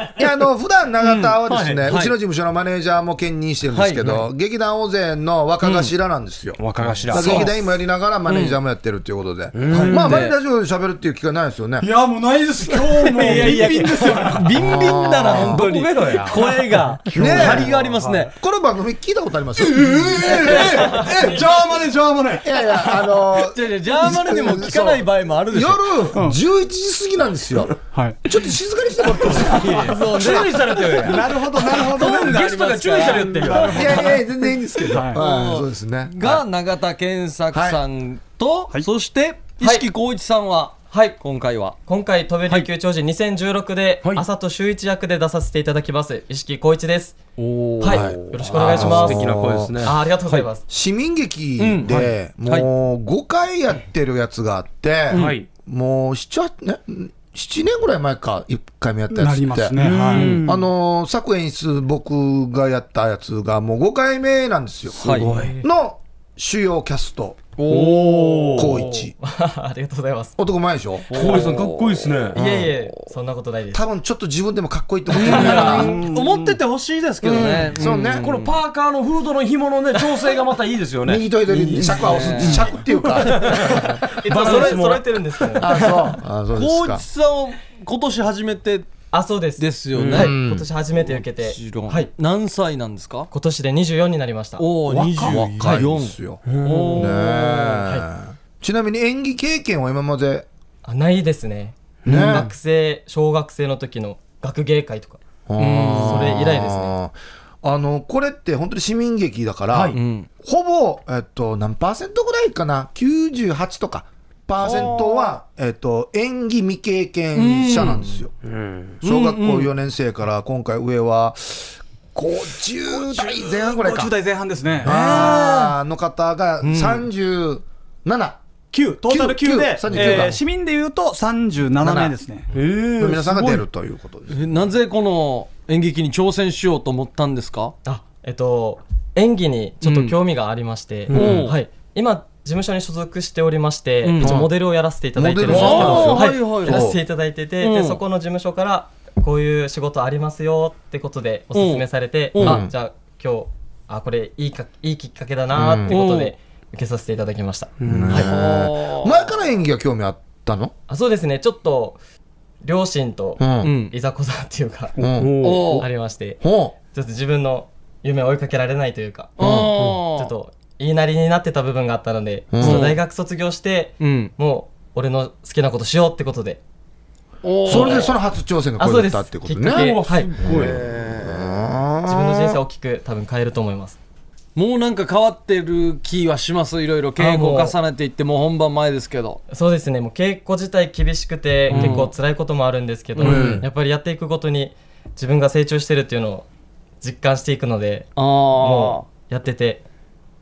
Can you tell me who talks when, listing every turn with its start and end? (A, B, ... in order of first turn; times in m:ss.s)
0:00.2-0:11.9 A
0:01.0-0:02.2 B
0:01.5-0:01.8 C
0:03.7-0:04.3 B
0:05.6-0:05.9 B
0:06.6-0:07.5 C
0:07.1-0:07.5 B
0:08.3-0:08.6 B
0:09.5-0:10.2 C
0:09.7-0:10.0 D
0:09.7-0:10.4 B
0:11.8-0:14.5 D
0:12.7-0:18.3 B
0:14.5-0:15.6 A
0:15.3-0:16.5 C
0:17.1-0:18.3 D
0:17.1-0:17.7 A
0:18.3-0:21.0 A
0:19.6-0:22.5 D
0:20.2-0:21.5 B
0:22.4-0:30.2 A
0:23.2-0:26.1 B
0:26.1-0:26.4 D
0:27.9-0:28.3 D
0:29.3-0:34.2 B
0:29.3-0:30.0 D
0:30.0-0:31.2 C
0:30.9-0:32.5 D
0:32.0-0:33.7 C
0:33.3-0:34.2 D
0:33.6-0:36.4 A
0:34.9-0:35.2 D
0:35.1-0:41.8 B
0:37.5-0:37.8 A
0:39.6-0:39.9 E
0:40.9-0:41.2 E
0:41.8-0:47.2 E
0:47.4-0:48.1 B
0:47.8-0:49.2 E
0:47.8-0:49.9 A
0:48.5-0:49.9 C
0:49.8-0:50.6 E
0:50.7-0:59.8 A
0:51.6-0:52.7 B
0:55.1-0:55.5 C
0:59.1-1:00.4 D
0:59.8-1:00.6 C
1:00.1-1:00.4 B
1:00.4-1:07.4 A
1:05.0-1:05.3 B
1:05.0-1:05.6 C
1:07.6-1:08.9 B
1:07.7-1:08.8 C
1:08.5-1:09.1 A
1:09.2-1:10.4 E
1:10.4-1:11.1 A
1:11.1-1:13.1 B
1:11.1-1:12.4 C
1:12.3-1:13.8 E
1:13.7-1:16.0 A
1:15.1-1:18.5 B
1:15.3-1:15.8 C
1:15.3-1:15.9 E
1:16.0-1:16.6 D
1:17.4-1:18.2 A
1:18.2-1:25.6 C
1:21.0-1:24.0 A
1:21.7-1:22.7 B
1:24.1-1:26.1 E
1:24.3-1:24.8 B
1:25.6-1:27.0 A
1:26.5-1:28.9 B
1:29.1-1:32.1 E
1:29.6-1:30.3 B
1:29.9-1:30.3 C
1:30.1-1:30.7 A
1:31.0-1:33.3 B
1:33.3-1:34.6 E
1:34.6-1:37.8 B
1:34.8-1:36.4 A
1:36.4-1:37.1 C
1:37.0-1:40.5 A
1:40.8-1:45.2 E
1:42.0-1:42.5 A
1:42.1-1:42.4 B
1:45.5-1:58.3 A
1:45.6-1:46.4 B
1:45.9-1:46.9 E
1:49.7-1:50.0 C
1:49.9-1:50.3 B
1:54.6-1:55.2 B
1:57.3-1:58.1 B
1:58.4-1:59.0 C
1:59.0-2:04.2 A
1:59.0-1:59.7 B
2:03.2-2:05.3 D
2:04.8-2:08.4 A
2:04.8-2:05.6 B
2:06.6-2:07.1 B
2:08.7-2:12.5 D
2:09.0-2:10.4 A
2:11.8-2:12.1 A
2:12.5-2:13.5 C
2:13.0-2:14.7 A
2:14.3-2:17.7 B
2:17.8-2:38.3 E
2:19.8-2:20.2 B
2:21.1-2:21.5 C
2:21.1-2:21.5 B
2:24.0-2:24.4 B
2:24.2-2:24.5 A
2:25.1-2:27.0 A
2:25.5-2:27.0 B
2:25.5-2:26.0 C
2:27.6-2:28.0 B
2:31.5-2:32.6 B
2:32.4-2:32.7 A
2:35.5-2:35.9 A
2:35.9-2:36.3 B
2:37.8-2:38.2 C
2:37.9-2:40.7 A
2:38.1-2:39.3 B
2:40.9-2:42.0 E
2:42.6-2:45.0 E
2:43.4-2:43.7 A
2:43.6-2:43.9 B
2:45.0-2:45.8 C
2:45.0-2:45.3 A
2:45.4-2:45.8 B
2:45.7-2:49.4 E
2:46.4-2:46.8 A
2:49.4-2:50.3 B
2:49.4-2:49.7 A
2:50.0-2:56.6 E
2:52.5-2:52.9 A
2:52.6-2:53.0 B
2:54.0-2:54.3 B
2:57.4-2:58.1 B
2:57.6-2:59.9 A
2:57.7-2:58.1 C
2:58.8-3:00.3 E
2:59.6-3:00.7 C
3:00.1-3:01.6 B
3:00.4-3:02.6 A
3:02.0-3:04.0 E
3:04.6-3:09.4 B
3:07.2-3:07.8 E
3:09.5-3:16.5 E
3:11.7-3:12.1 B
3:13.2-3:13.6 B
3:13.2-3:13.6 A
3:13.2-3:13.6 C
3:17.0-3:19.8 E
3:18.2-3:19.0 B